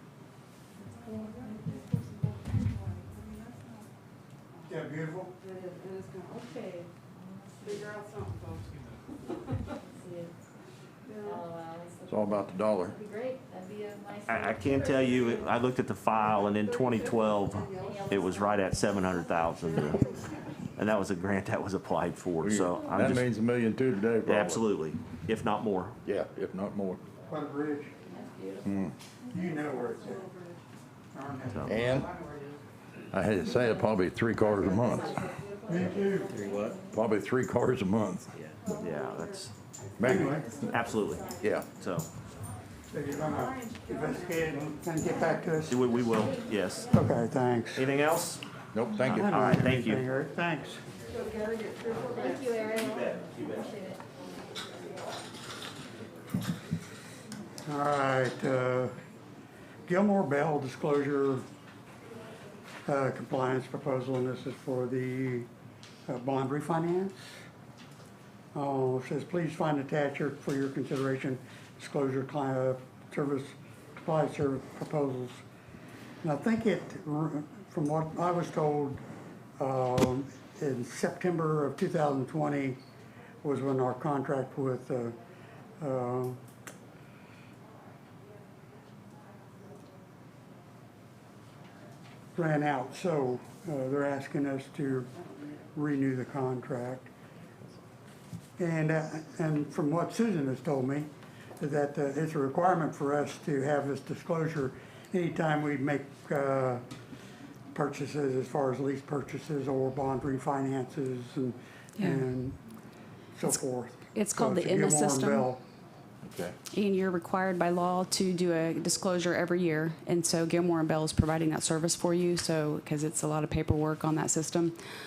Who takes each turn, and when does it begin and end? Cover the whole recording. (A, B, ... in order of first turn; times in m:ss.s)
0:01.0-0:03.8 A
0:01.1-0:01.9 B
0:04.7-0:05.4 C
0:05.4-0:06.5 A
0:06.3-0:08.0 B
0:07.6-0:08.6 A
0:09.7-0:10.3 B
0:11.1-0:11.4 A
0:11.2-0:15.3 B
0:12.1-0:13.0 D
0:14.3-0:20.1 E
0:16.3-0:18.0 A
0:17.8-0:19.5 B
0:19.6-0:20.0 A
0:20.8-0:23.3 E
0:22.4-0:24.6 D
0:24.2-0:26.0 E
0:26.0-0:27.0 D
0:27.3-0:27.9 C
0:28.1-0:28.8 B
0:28.6-0:28.9 D
0:29.3-0:30.3 C
0:29.7-0:30.6 A
0:31.1-0:32.6 C
0:31.5-0:31.8 E
0:31.7-0:32.1 D
0:33.1-0:35.2 D
0:33.4-0:37.0 B
0:35.7-0:36.4 C
0:36.3-0:36.8 E
0:36.9-0:38.3 D
0:38.3-0:39.5 E
0:38.6-0:39.1 A
0:40.0-0:40.5 D
0:40.0-0:40.5 C
0:40.2-0:41.5 B
0:40.7-0:41.3 E
0:41.4-0:41.7 D
0:41.8-0:42.1 E
0:42.9-0:45.8 C
0:43.3-0:44.4 A
0:45.7-0:46.9 E
0:46.1-0:46.8 B
0:46.9-0:47.9 C
0:47.8-0:48.4 E
0:48.7-0:49.3 D
0:49.0-0:50.8 C
0:49.1-0:50.0 E
0:51.1-0:52.5 A
0:51.9-0:54.0 B
0:52.9-0:53.5 E
0:57.7-0:58.9 C
0:59.9-1:01.4 C
1:02.9-1:05.5 C
1:06.1-1:07.3 C
1:08.5-1:15.4 C
1:16.2-1:19.0 C
1:19.6-1:22.8 C
1:23.4-1:25.2 C
1:25.8-1:26.4 C
1:32.4-1:35.1 C
1:35.8-1:37.1 C
1:38.6-1:41.1 C
1:41.6-1:46.8 C
1:47.7-1:52.6 C
1:52.0-1:52.3 F
1:53.4-1:55.6 C
1:54.2-1:55.5 F
1:56.2-1:56.6 D
1:56.7-2:04.8 F